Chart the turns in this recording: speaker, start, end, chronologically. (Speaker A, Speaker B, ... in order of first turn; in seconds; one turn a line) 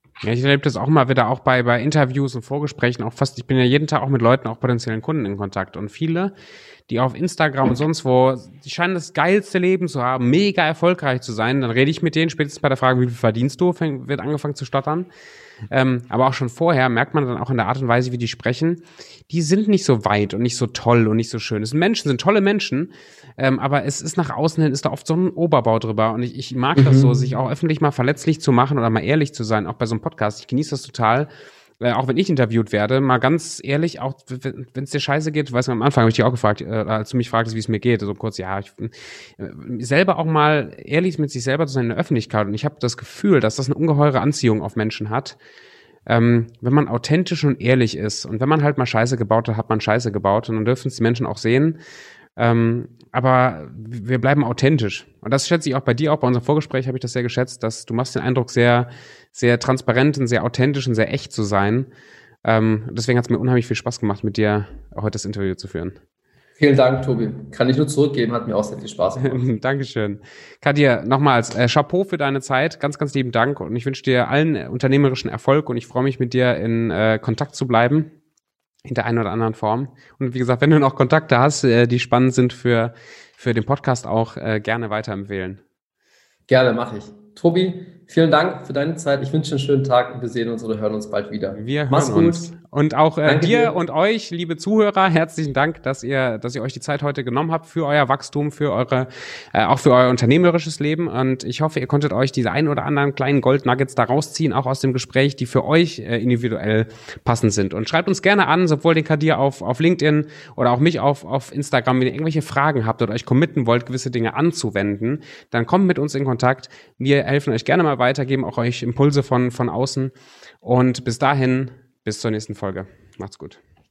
Speaker A: 0.2-6.3
Speaker A: 6.9-15.1
Speaker A: 15.7-31.3
Speaker B: 26.7-27.3
Speaker A: 31.8-45.4
Speaker A: 46.0-51.8
Speaker A: 52.4-61.9
Speaker A: 62.4-66.0
Speaker B: 66.6-69.5
Speaker A: 69.2-78.1
Speaker A: 78.8-85.6
Speaker B: 86.5-92.5
Speaker A: 91.5-123.6
Speaker B: 93.2-93.7